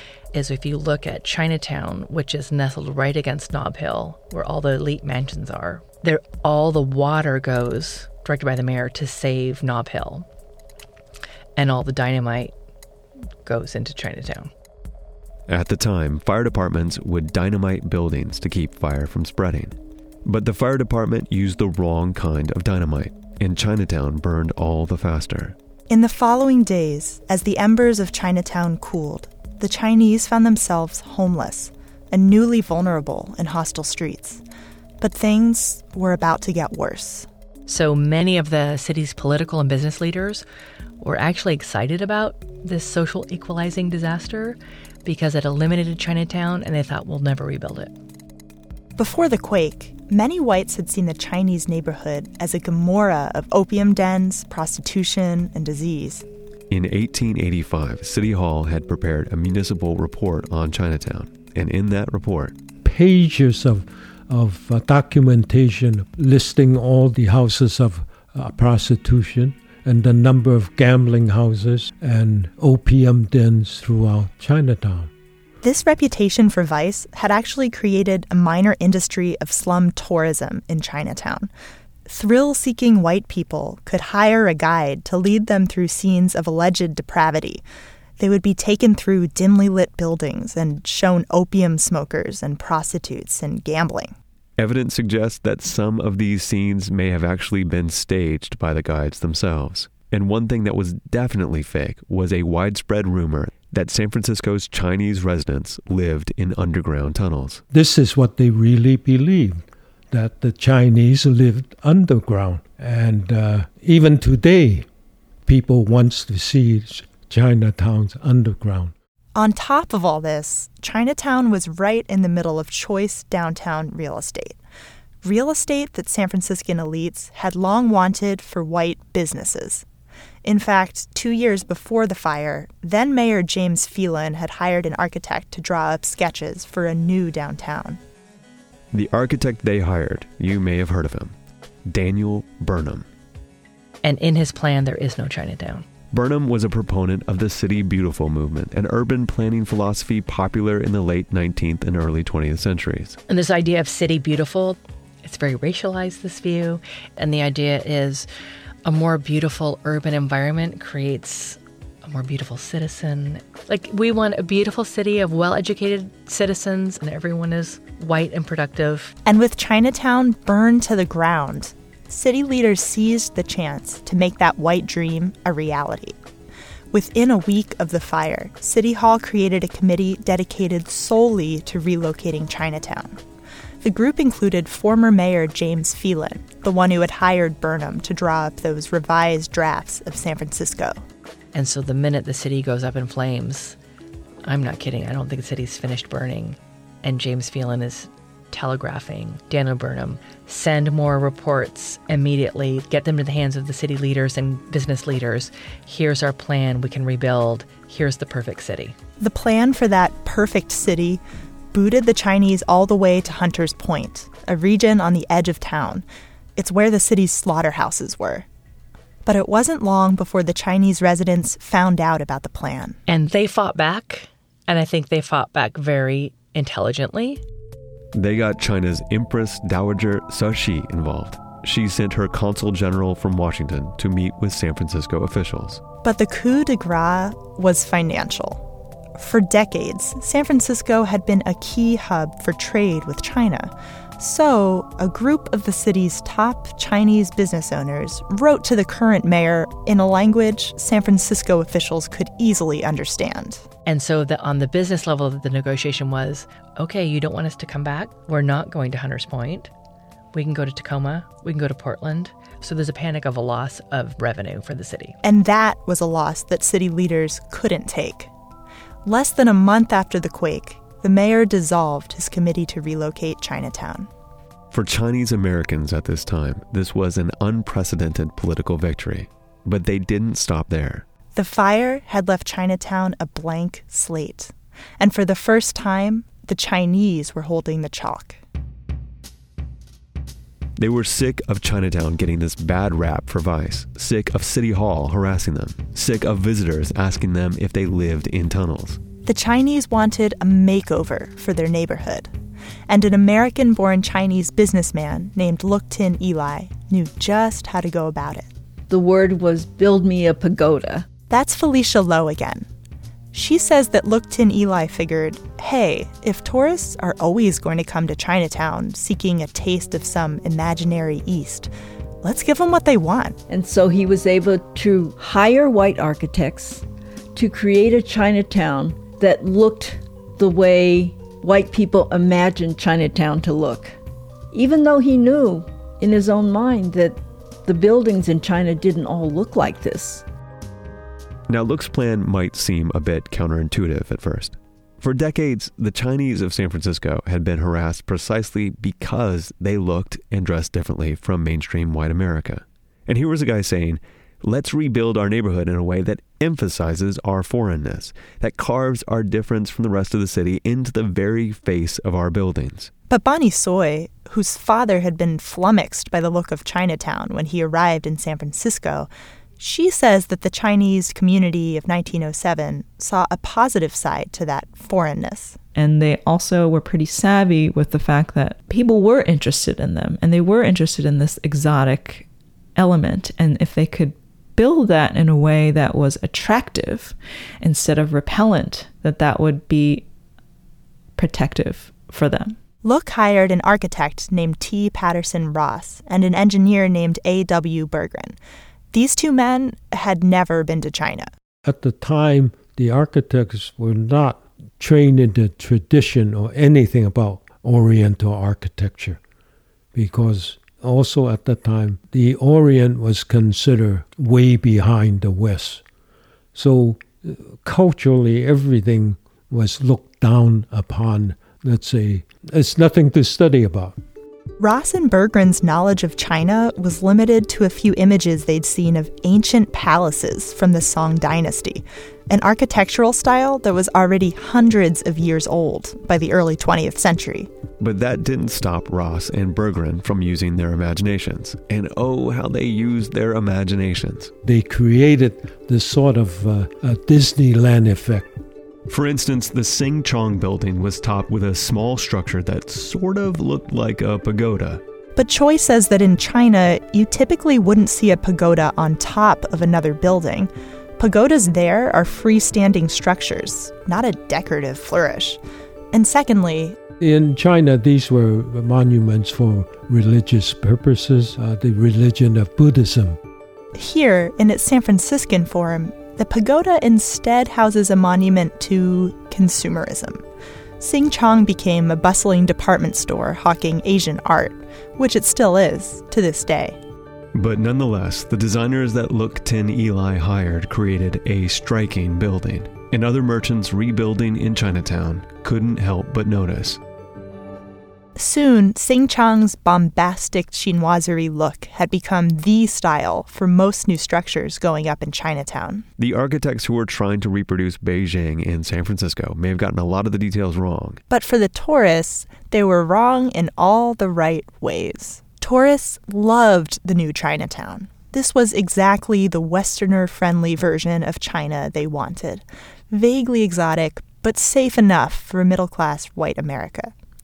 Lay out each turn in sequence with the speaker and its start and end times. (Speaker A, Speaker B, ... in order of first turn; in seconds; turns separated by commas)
Speaker A: 0.3-10.3, Speaker A: 11.6-12.5, Speaker A: 13.4-14.5, Speaker B: 15.5-25.6, Speaker C: 25.9-34.4, Speaker C: 35.0-37.3, Speaker A: 37.7-40.4, Speaker A: 41.0-47.9, Speaker C: 49.0-56.2, Speaker B: 56.7-62.5, Speaker D: 62.8-75.1, Speaker C: 75.6-81.5, Speaker C: 82.1-87.6, Speaker C: 88.2-94.1, Speaker B: 94.6-107.6, Speaker D: 107.7-114.9, Speaker D: 115.5-118.9, Speaker C: 119.3-124.6, Speaker C: 125.2-129.8, Speaker C: 130.4-138.0, Speaker B: 138.9-141.3, Speaker B: 141.9-143.1, Speaker A: 144.0-145.9, Speaker B: 146.1-153.2, Speaker A: 153.3-158.3, Speaker A: 158.8-169.1, Speaker C: 169.2-176.2, Speaker C: 176.9-183.2, Speaker C: 183.8-191.0, Speaker A: 191.5-193.8, Speaker A: 194.4-208.9, Speaker C: 209.2-211.2, Speaker C: 211.7-216.1, Speaker C: 216.6-218.5, Speaker C: 219.3-223.0, Speaker A: 223.1-227.4, Speaker B: 228.1-235.8, Speaker C: 236.0-238.6, Speaker C: 239.2-253.7, Speaker A: 253.9-259.7, Speaker A: 260.3-265.2, Speaker C: 265.2-268.3, Speaker C: 269.1-274.1, Speaker B: 274.7-281.1, Speaker C: 281.4-288.4, Speaker B: 290.8-299.0, Speaker C: 299.3-302.3, Speaker C: 302.9-308.5, Speaker E: 308.9-311.1, Speaker C: 311.3-312.7, Speaker C: 313.3-321.7, Speaker C: 322.2-323.4, Speaker E: 323.5-326.8, Speaker E: 327.4-333.9, Speaker E: 334.5-340.2, Speaker B: 341.5-362.9, Speaker C: 363.1-375.6, Speaker F: 375.8-390.1, Speaker F: 391.2-392.6, Speaker C: 392.8-398.4, Speaker C: 398.9-401.3, Speaker D: 401.6-409.2, Speaker D: 409.9-415.8, Speaker D: 416.6-424.0, Speaker C: 424.6-437.5, Speaker B: 437.8-444.3, Speaker D: 444.4-448.4, Speaker B: 448.9-454.8, Speaker C: 455.2-465.4, Speaker C: 465.9-466.8, Speaker D: 467.0-473.2, Speaker C: 473.8-480.2, Speaker C: 480.8-486.8, Speaker B: 487.3-496.8, Speaker C: 498.2-505.9, Speaker B: 506.0-511.0, Speaker C: 511.1-526.9